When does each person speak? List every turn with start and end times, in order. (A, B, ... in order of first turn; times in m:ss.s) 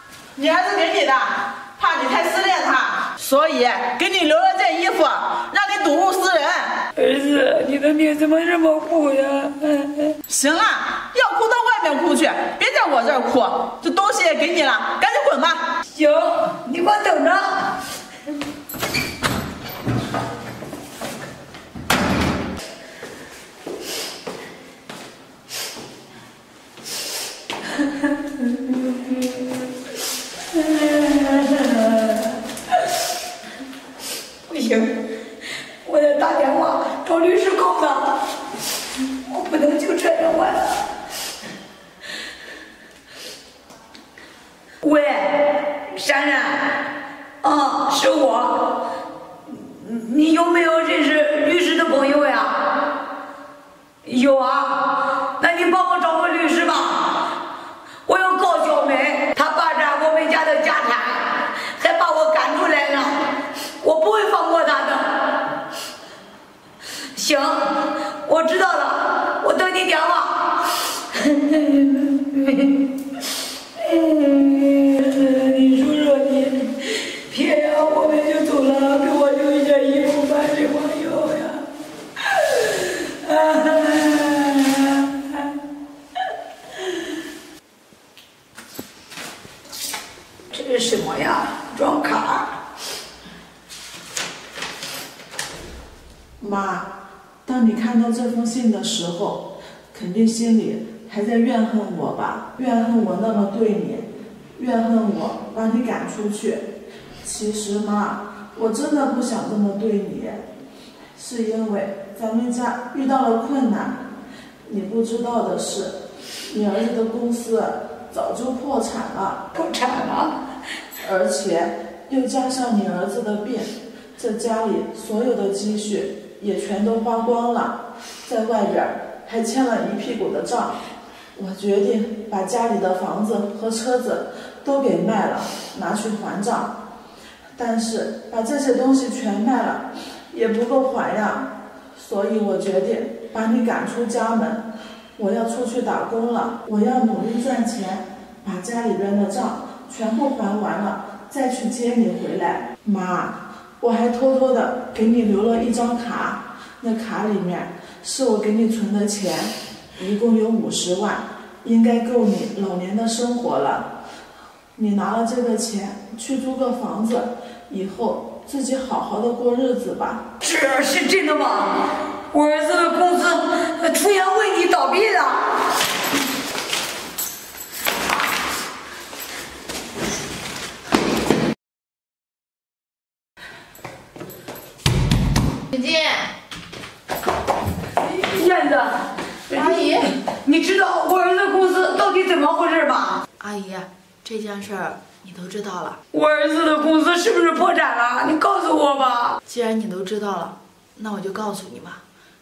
0:00.4-0:06.7 A
0:07.0-0:10.2 B
0:10.3-0:15.6 A
0:15.9-0:17.8 B
0:28.4-0:29.7 B
0:30.5-0:32.3 B
0:34.5-0:35.2 B
0:35.8-0:38.3 B
0:39.3-0:40.9 B
0:44.8-0:48.9 B
0:49.5-0:53.0 B
0:54.0-0:57.3 B
0:58.1-1:05.6 B
1:07.1-1:12.9 B
1:13.8-1:21.7 B
1:22.3-1:25.5 B
1:30.5-1:32.6 B
1:36.4-1:36.9 A
1:37.4-1:46.6 A
1:47.2-1:50.4 A
1:51.2-1:54.0 A
1:54.6-1:59.4 A
1:59.5-2:00.4 B
2:01.0-2:10.8 A
2:11.4-2:16.8 A
2:17.6-2:43.9 A
2:44.8-2:50.2 A
2:50.4-2:55.6 B
3:05.7-3:06.3 C
3:08.1-3:13.2 B
3:09.5-3:10.1 C
3:13.4-3:16.0 C
3:16.1-3:19.4 B
3:19.4-3:22.0 C